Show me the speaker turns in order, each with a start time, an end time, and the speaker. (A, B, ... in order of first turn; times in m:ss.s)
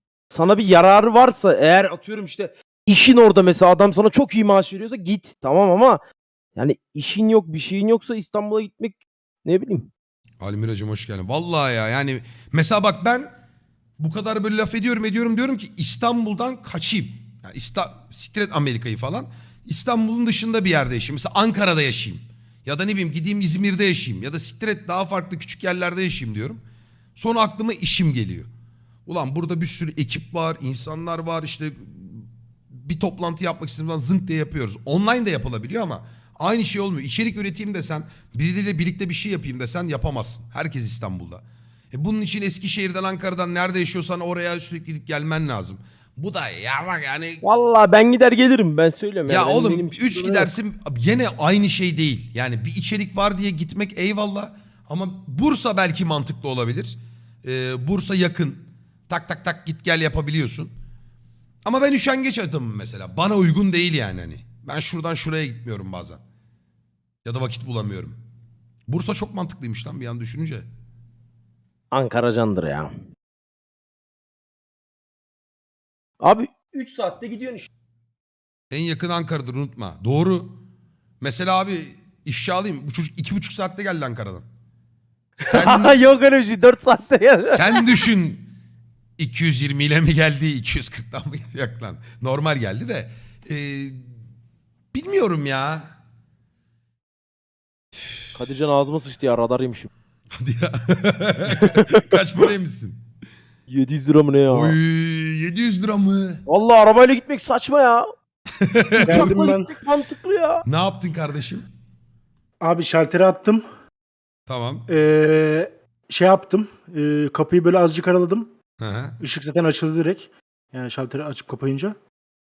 0:00.3-0:06.0 A
0:06.6-0:09.9 A
0:10.4-0:13.3 B
0:14.0-0:26.6 B
0:27.2-0:28.5 B
0:29.1-0:47.4 B
0:47.4-0:50.5 A
0:49.3-1:00.7 B
1:01.6-1:06.2 B
1:07.2-1:08.2 B
1:08.9-1:10.7 B
1:11.9-1:13.0 A
1:16.2-1:17.7 A
1:18.7-1:20.6 B
1:21.2-1:24.5 B
1:25.4-1:26.0 B
1:25.5-1:27.8 A
1:27.5-1:28.5 B
1:29.2-1:34.0 B
1:34.9-1:35.9 B
1:38.4-1:39.9 A
1:40.3-1:43.0 B
1:41.5-1:42.5 A
1:43.7-1:44.8 A
1:44.5-1:46.4 B
1:46.5-1:48.1 A
1:48.6-1:49.3 B
1:49.0-1:49.7 C
1:49.0-1:50.6 A
1:50.6-1:51.6 B
1:52.6-1:53.6 C
1:54.5-1:54.9 B
1:54.9-1:58.5 C
1:58.8-1:59.2 B
1:59.2-2:02.0 C